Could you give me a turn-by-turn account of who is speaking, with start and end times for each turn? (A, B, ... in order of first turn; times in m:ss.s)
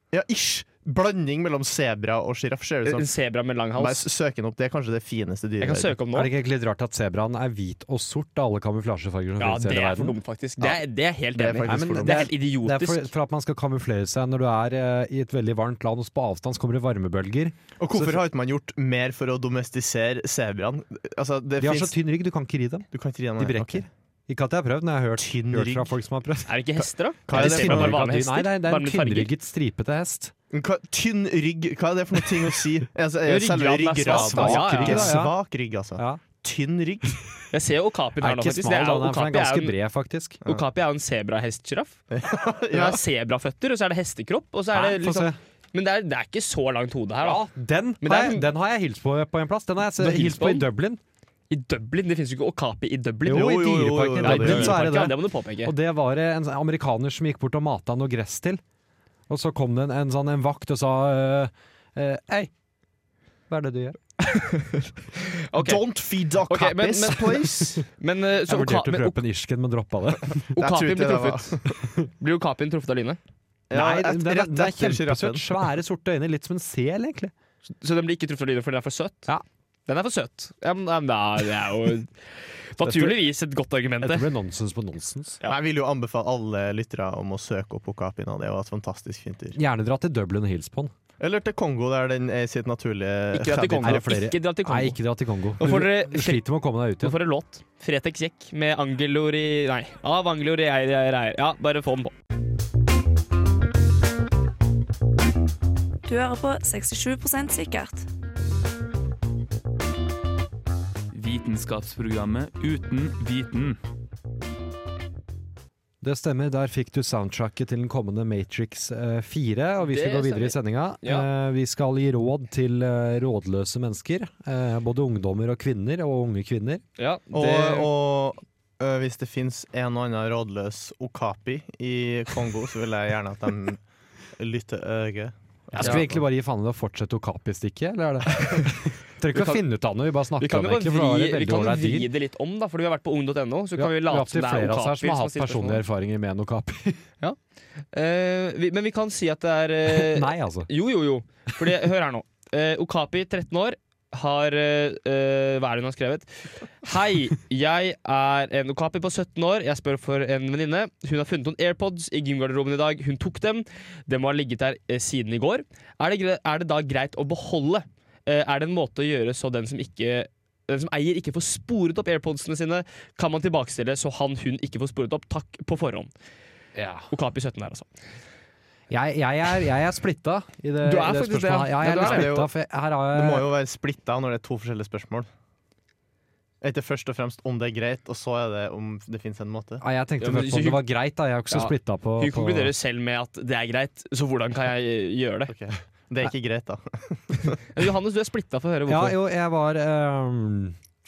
0:00.1-0:03.1 A
0:02.9-0:04.1 B
0:03.8-0:06.0 A
0:05.6-0:06.3 B
0:06.1-0:10.2 C
0:09.4-0:13.1 B
0:11.3-0:12.3 A
0:11.6-0:18.2 C
0:17.8-0:22.0 A
0:21.6-0:22.9 C
0:22.9-0:23.9 A
0:23.4-0:30.3 C
0:25.2-0:26.0 A
0:26.5-0:29.3 B
0:27.3-0:28.0 A
0:30.5-0:37.2 A
0:33.3-0:35.1 B
0:34.1-0:35.4 C
0:37.5-0:39.8 B
0:38.2-0:40.4 C
0:40.4-0:42.0 B
0:42.1-0:43.0 A
0:42.7-0:47.4 B
0:44.7-0:45.4 C
0:47.2-0:51.0 C
0:48.0-0:48.5 B
0:50.0-0:50.7 B
0:51.5-0:55.7 B
0:53.3-0:58.6 C
0:53.3-0:54.9 A
0:59.3-1:02.5 C
1:03.5-1:04.0 C
1:04.2-1:05.8 B
1:05.6-1:07.7 A
1:06.5-1:09.2 B
1:08.5-1:10.5 C
1:10.6-1:11.6 B
1:10.6-1:11.8 A
1:12.2-1:13.2 B
1:13.7-1:15.7 A
1:13.7-1:17.3 C
1:17.7-1:19.3 B
1:19.9-1:24.3 B
1:22.9-1:23.1 C
1:24.0-1:25.4 C
1:25.5-1:29.6 A
1:29.6-1:30.9 C
1:31.2-1:34.1 A
1:33.3-1:35.0 B
1:33.8-1:37.2 C
1:35.6-1:36.4 B
1:37.0-1:42.1 B
1:46.1-1:48.0 D
1:51.1-1:53.8 E
1:56.0-2:06.8 C
1:59.8-2:01.3 B
2:07.0-2:07.9 B
2:07.3-2:13.8 A
2:14.4-2:16.2 A
2:15.8-2:16.0 B
2:15.8-2:22.1 C
2:18.4-2:18.7 B
2:19.3-2:19.6 B
2:20.4-2:25.8 B
2:23.8-2:27.0 C
2:27.9-2:56.1 B
2:29.9-2:30.7 C
2:56.8-2:57.1 C
2:57.1-2:57.9 B
2:58.9-3:03.5 C
3:00.8-3:02.3 B
3:01.9-3:02.5 A
3:03.1-3:05.3 A
3:06.6-3:09.8 A
3:09.8-3:12.7 C
3:10.2-3:10.8 B
3:11.5-3:15.5 B
3:15.5-3:17.6 A
3:17.7-3:19.2 B
3:18.9-3:20.8 C